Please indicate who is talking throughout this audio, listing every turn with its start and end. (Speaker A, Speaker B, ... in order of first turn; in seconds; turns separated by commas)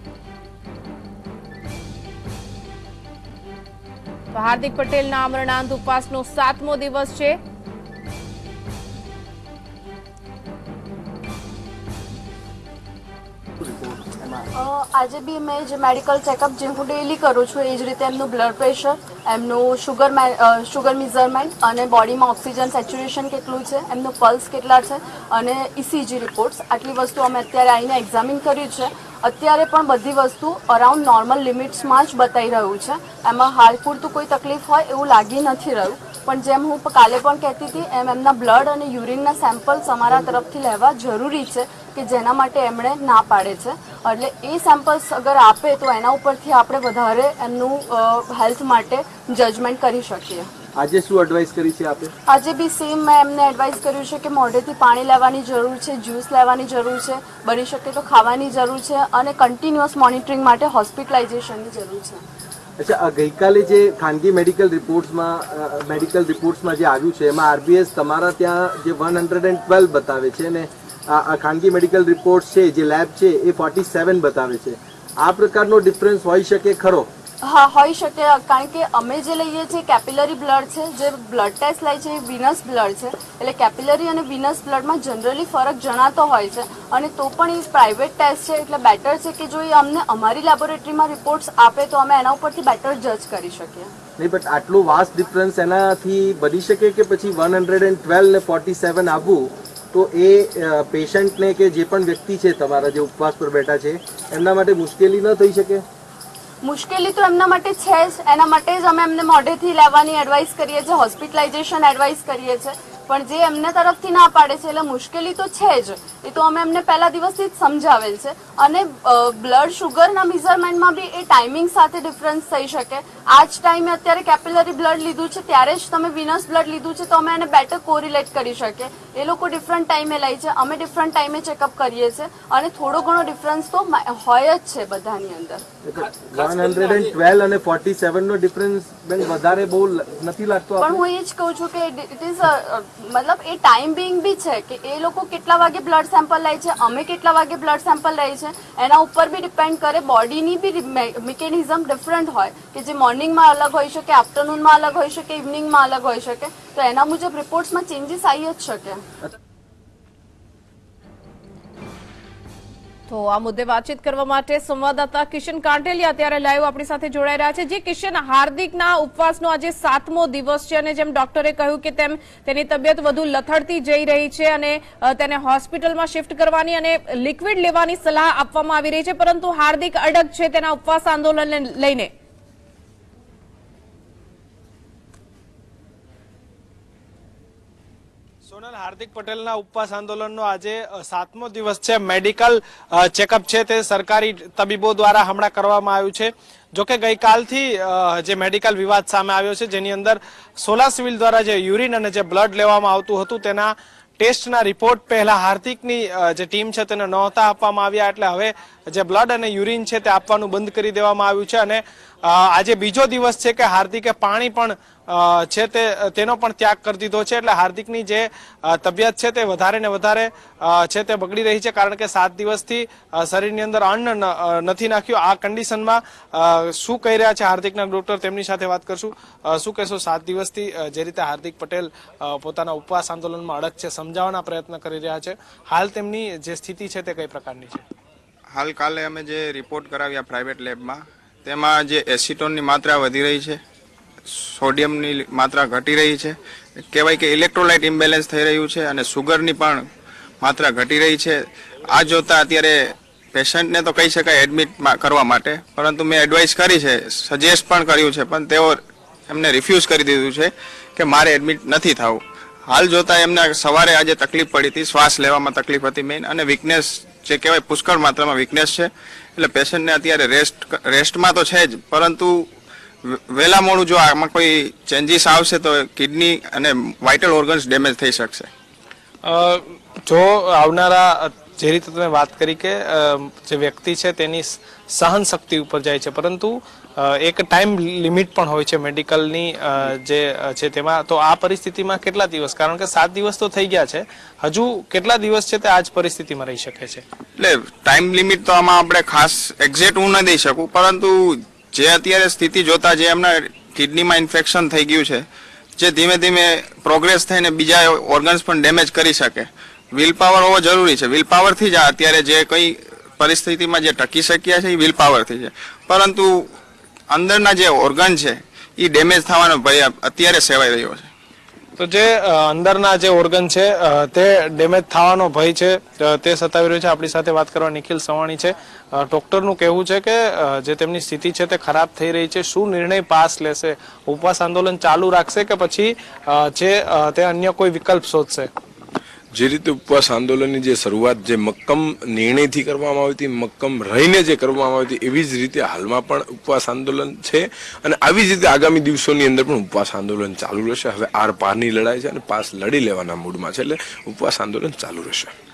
Speaker A: 4.3-7.4, Speaker B: 13.6-14.4, Speaker C: 14.5-50.5, Speaker B: 50.8-52.1, Speaker C: 52.3-62.2, Speaker B: 62.8-77.1, Speaker C: 77.4-93.9, Speaker B: 94.2-105.8, Speaker C: 106.6-135.6, Speaker B: 135.8-141.0, Speaker C: 140.8-159.0, Speaker A: 163.1-182.1, Speaker D: 188.5-237.8, Speaker E: 238.5-243.6, Speaker E: 244.5-246.3, Speaker E: 246.9-249.8, Speaker E: 250.4-251.4, Speaker E: 252.0-252.8, Speaker E: 253.3-258.8, Speaker E: 259.3-262.2, Speaker E: 262.7-268.9, Speaker E: 269.4-272.3, Speaker E: 273.4-278.4, Speaker D: 279.2-297.0, Speaker E: 297.4-301.1, Speaker E: 301.7-305.2, Speaker E: 305.8-312.7, Speaker E: 313.2-316.2, Speaker E: 317.1-321.0, Speaker D: 321.8-338.5, Speaker F: 339.3-355.3